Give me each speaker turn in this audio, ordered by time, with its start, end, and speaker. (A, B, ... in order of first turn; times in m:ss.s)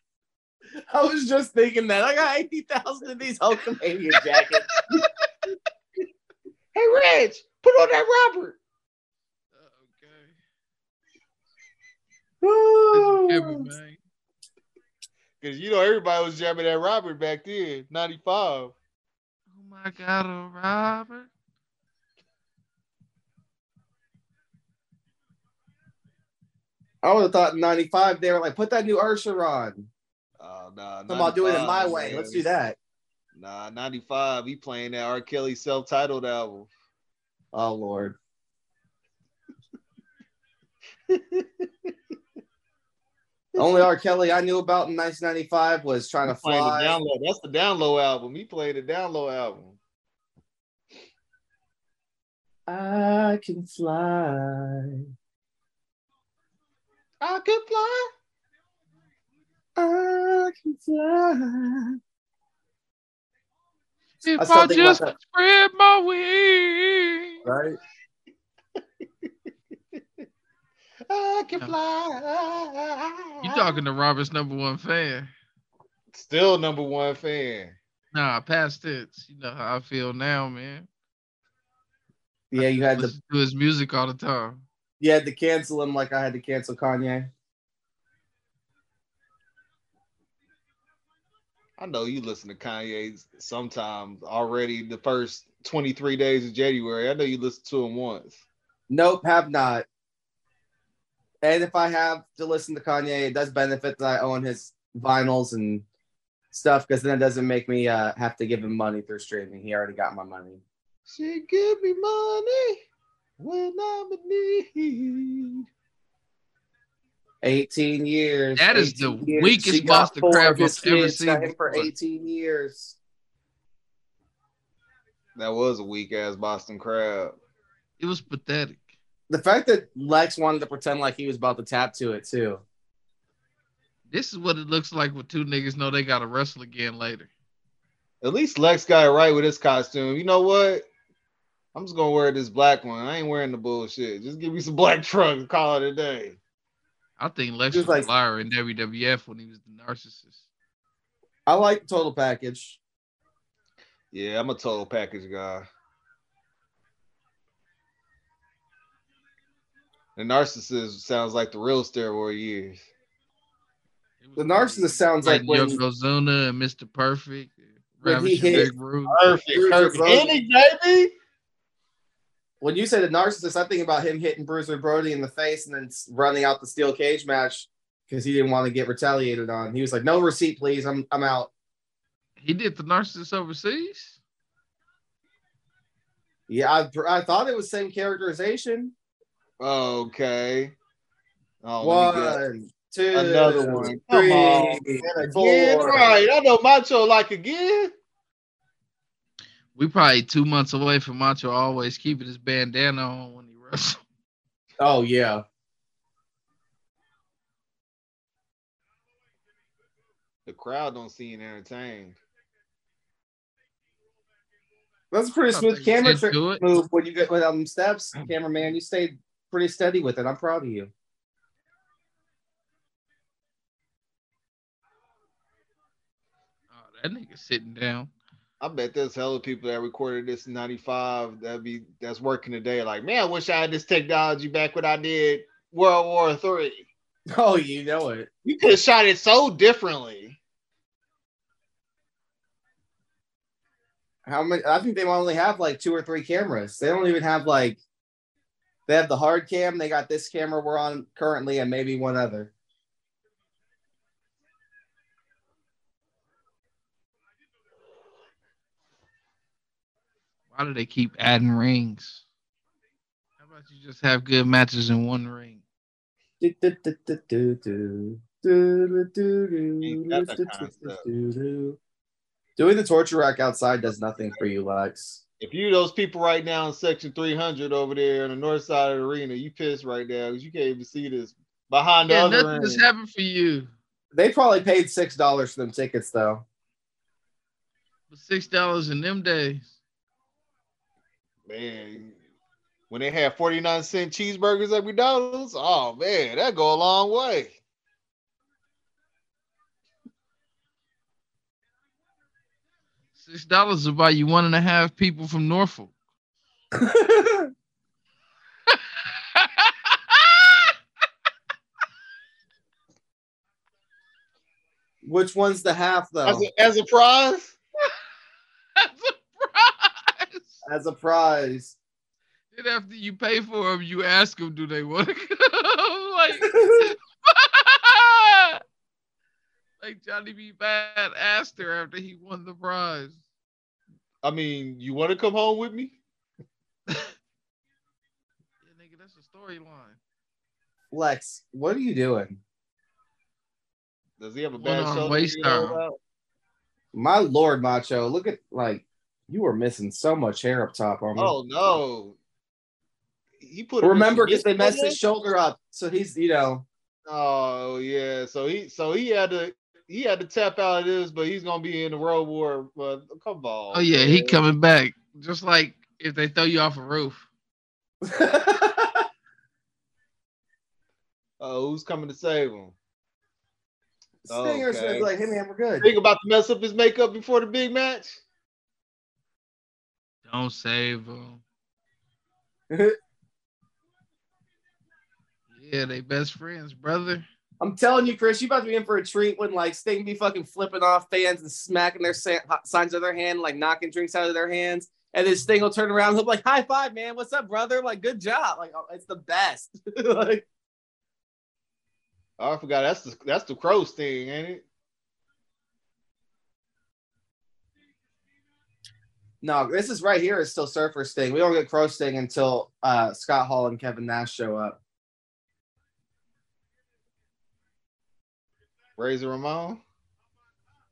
0:00.9-0:04.9 A
0:06.7-0:08.6 B
0:09.6-0:10.3 C
0:12.4-0:13.7 A
0:12.9-0:14.0 C
0:15.4-0:18.7 B
0:19.5-0:21.3 C
0:27.0-0:29.9 A
0:30.4-0:32.5 B
0:31.1-0:32.8 A
0:33.4-0:36.7 B
0:37.5-0:38.2 A
0:41.1-0:41.6 B
0:43.6-0:47.0 A
0:46.3-0:49.8 B
0:52.7-0:55.1 A
0:57.2-0:58.1 B
0:59.8-1:02.0 A
1:04.2-1:07.4 C
1:04.4-1:05.1 A
1:07.4-1:07.8 A
1:11.1-1:13.8 B
1:13.4-1:15.3 C
1:16.1-1:17.8 B
1:18.1-1:20.9 C
1:22.5-1:23.1 A
1:22.6-1:24.6 C
1:25.0-1:27.3 A
1:31.8-1:38.4 B
1:38.9-1:39.9 A
1:41.4-1:45.8 A
1:46.5-1:50.6 A
1:51.1-1:52.8 B
1:53.4-1:55.7 B
1:57.4-2:03.0 A
1:58.6-2:01.9 C
2:05.4-2:07.4 B
2:08.0-2:08.8 C
2:09.3-2:12.6 A
2:14.1-2:17.3 C
2:18.2-2:20.9 B
2:21.8-2:26.4 B
2:27.2-2:30.4 C
2:27.7-2:28.1 A
2:31.5-2:32.8 A
2:34.1-2:35.6 B
2:40.2-2:42.8 B
2:44.2-2:49.2 C
2:44.4-2:45.8 A
2:48.0-2:48.7 A
2:48.5-2:51.1 B
2:49.5-2:50.3 A
2:52.6-3:01.5 A
3:02.4-3:04.2 C
3:06.5-3:08.9 A
3:09.6-3:10.7 B
3:11.6-3:12.4 B
3:11.8-3:16.2 A
3:13.1-3:17.9 B
3:19.8-3:24.0 C
3:24.8-3:25.4 A
3:30.5-3:32.2 B
3:35.1-3:40.9 A
3:35.5-3:36.6 C
3:46.7-3:48.1 C
3:48.6-3:56.9 B
3:57.3-3:58.3 A
3:58.4-4:00.4 B
4:04.2-4:07.8 A
4:08.9-4:12.5 A
4:20.5-4:22.2 C
4:23.4-4:25.6 C
4:26.4-4:31.8 A
4:29.8-4:31.0 B
4:32.6-4:35.2 A
4:35.4-4:42.8 B
4:42.1-4:43.7 C
4:44.1-4:46.4 A
4:48.1-4:49.8 C
4:51.5-4:52.2 B
4:52.9-4:57.6 B
5:03.2-5:05.9 C
5:06.7-5:07.5 A
5:09.4-5:10.6 C
5:15.0-5:16.5 A
5:16.2-5:17.6 B
5:18.8-5:20.6 C
5:20.6-5:21.8 A
5:22.5-5:28.6 C
5:26.4-5:26.9 A
5:29.8-5:33.2 C
5:34.2-5:36.0 B
5:38.6-5:40.0 C
5:40.9-5:42.4 A
5:44.2-5:46.0 B
5:44.6-5:45.8 C
5:46.9-5:51.3 A
5:51.2-5:52.2 B
5:53.4-5:55.0 B
5:53.8-5:56.6 A
5:57.1-6:04.4 B
6:03.7-6:07.3 C
6:08.0-6:09.1 A
6:11.4-6:12.8 B
6:14.3-6:15.9 A
6:14.3-6:15.1 B
6:15.8-6:18.2 B
6:20.3-6:21.4 C
6:22.7-6:23.0 A
6:25.5-6:27.2 C
6:27.6-6:40.5 A
6:42.4-6:44.6 B
6:49.4-6:54.8 A
6:59.0-6:59.8 B